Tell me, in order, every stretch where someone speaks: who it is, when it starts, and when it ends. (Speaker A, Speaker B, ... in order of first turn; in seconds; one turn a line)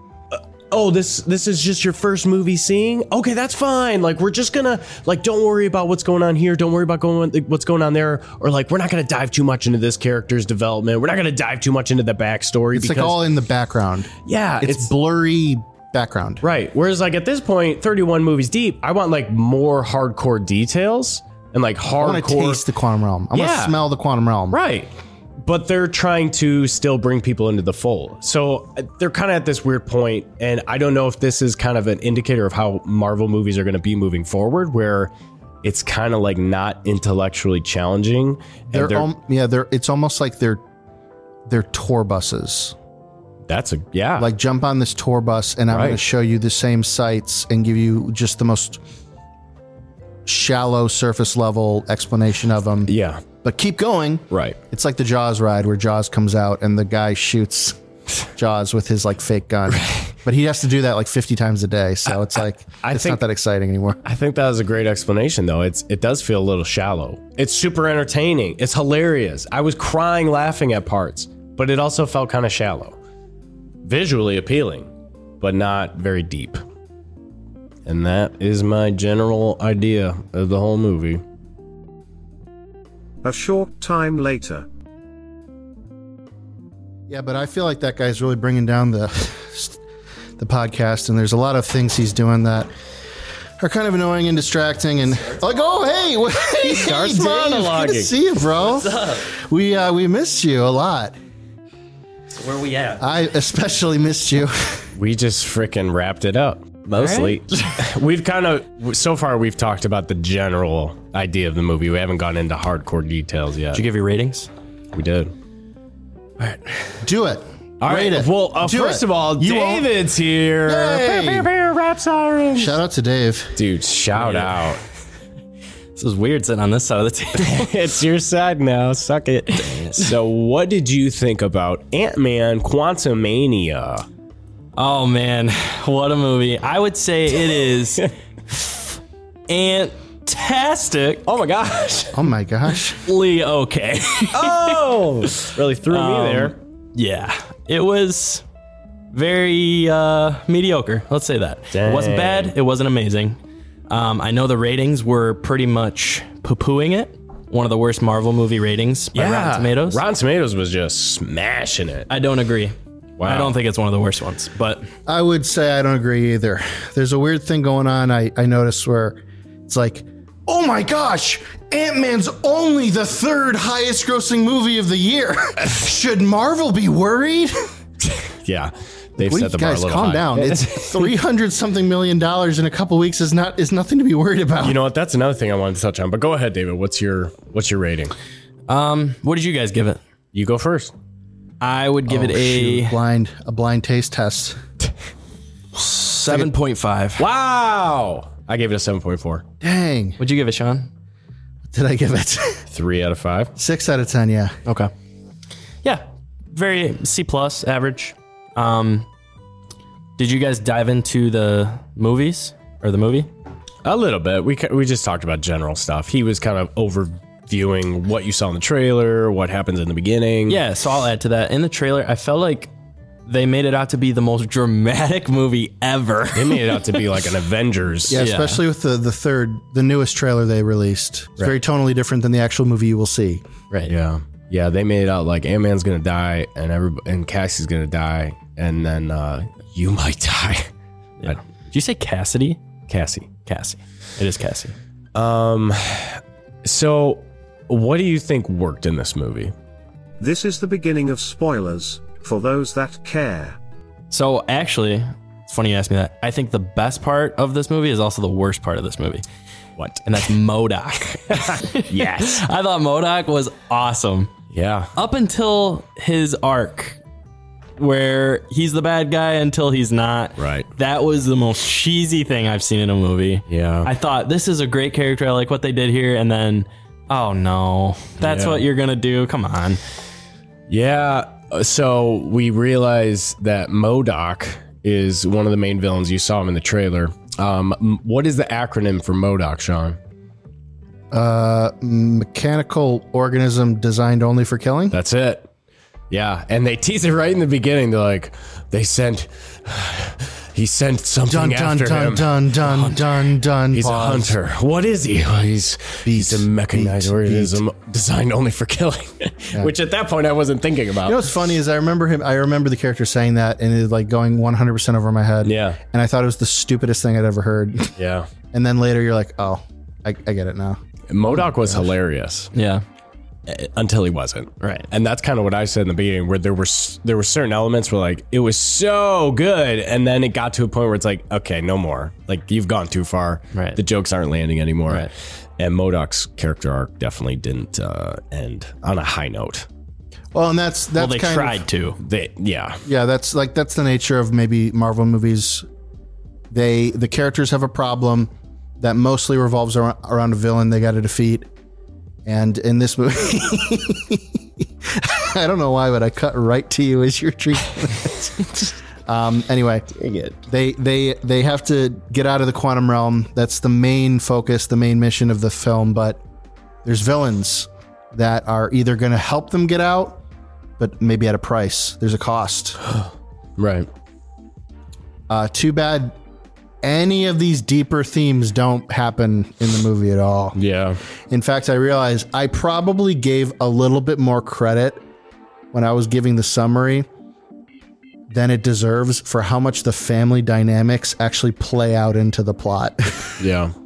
Speaker A: 0.3-13.2
Speaker B: 12.7-16.4
Speaker A: 14.2-14.9
Speaker A: 16.4-22.6
Speaker B: 22.0-24.6
Speaker A: 23.3-23.8
Speaker A: 24.5-35.1
Speaker A: 35.6-39.1
Speaker B: 38.7-40.6
Speaker B: 41.5-42.7
Speaker A: 43.5-44.3
Speaker B: 44.2-48.8
Speaker A: 45.7-46.0
Speaker B: 50.2-52.9
Speaker A: 52.9-53.2
Speaker B: 53.4-57.8
Speaker A: 54.3-54.6
Speaker B: 58.3-64.0
Speaker A: 59.7-60.1
Speaker A: 62.8-63.2
Speaker A: 64.0-73.0
Speaker A: 73.8-74.9
Speaker A: 75.4-76.6
Speaker A: 77.8-81.2
Speaker C: 83.2-84.7
Speaker B: 87.1-89.8
Speaker B: 90.4-92.7
Speaker B: 93.6-101.1
Speaker A: 96.5-98.1
Speaker D: 98.6-99.3
Speaker D: 102.3-103.0
Speaker B: 103.0-104.9
Speaker A: 104.9-113.8
Speaker D: 107.0-107.7
Speaker D: 113.7-114.5
Speaker A: 114.9-115.3
Speaker D: 116.4-116.9
Speaker B: 117.0-119.9
Speaker A: 117.8-122.8
Speaker B: 120.7-121.5
Speaker B: 122.5-123.5
Speaker A: 123.5-124.8
Speaker D: 124.2-124.5
Speaker D: 126.0-127.7
Speaker A: 127.3-134.1
Speaker D: 129.5-130.1
Speaker D: 134.8-138.9
Speaker D: 139.5-141.2
Speaker A: 141.2-142.2
Speaker B: 142.1-143.0
Speaker D: 143.0-144.8
Speaker A: 144.3-146.5
Speaker D: 145.9-148.4
Speaker D: 149.1-153.4
Speaker A: 151.7-152.5
Speaker D: 153.9-160.0
Speaker A: 159.1-162.1
Speaker D: 162.1-164.9
Speaker A: 163.2-163.5
Speaker B: 165.1-177.7
Speaker A: 178.4-181.1
Speaker B: 179.2-184.8
Speaker A: 184.6-188.1
Speaker D: 188.7-190.0
Speaker A: 190.3-190.9
Speaker D: 191.6-192.9
Speaker B: 192.1-194.6
Speaker D: 195.7-197.2
Speaker B: 196.3-196.5
Speaker A: 197.2-199.4
Speaker B: 199.6-200.2
Speaker D: 200.2-200.9
Speaker B: 201.7-202.7
Speaker A: 202.7-203.5
Speaker B: 203.6-204.6
Speaker D: 204.7-204.9
Speaker D: 205.8-209.1
Speaker D: 210.2-213.3
Speaker A: 213.8-220.6
Speaker D: 220.5-222.7
Speaker D: 223.3-227.0
Speaker A: 226.3-228.2
Speaker B: 228.1-233.4
Speaker D: 228.1-228.6
Speaker A: 233.9-240.7
Speaker D: 241.2-242.6
Speaker A: 242.9-243.3
Speaker D: 243.4-244.7
Speaker A: 245.1-249.5
Speaker C: 250.2-253.6
Speaker D: 254.1-259.2
Speaker A: 259.8-260.1
Speaker D: 260.1-264.3
Speaker A: 261.3-262.4
Speaker A: 264.5-264.9
Speaker D: 264.9-267.0
Speaker D: 267.8-279.8
Speaker A: 270.4-270.7
Speaker A: 273.5-273.9
Speaker A: 278.2-278.6
Speaker A: 280.7-290.0
Speaker B: 291.1-294.9
Speaker A: 294.9-295.5
Speaker A: 296.1-302.3
Speaker B: 301.2-304.3
Speaker D: 302.6-303.0
Speaker A: 303.7-311.3
Speaker B: 306.0-307.6
Speaker B: 311.0-317.9
Speaker A: 315.4-315.8
Speaker A: 318.0-318.3
Speaker B: 318.5-320.8
Speaker A: 321.1-322.5
Speaker D: 322.5-322.8
Speaker A: 323.5-339.7
Speaker D: 324.6-324.9
Speaker D: 333.5-333.8
Speaker B: 340.3-341.6
Speaker D: 340.9-342.0
Speaker A: 342.0-342.8
Speaker B: 342.8-345.6
Speaker B: 346.5-351.5
Speaker B: 352.2-359.9
Speaker A: 360.1-360.3
Speaker B: 360.4-366.2
Speaker B: 366.8-370.2
Speaker B: 370.8-372.8
Speaker A: 372.8-373.9
Speaker B: 375.3-376.2
Speaker B: 376.8-380.6
Speaker A: 380.6-381.0
Speaker B: 381.3-385.0
Speaker B: 385.7-387.1
Speaker B: 388.3-393.4
Speaker A: 393.4-393.7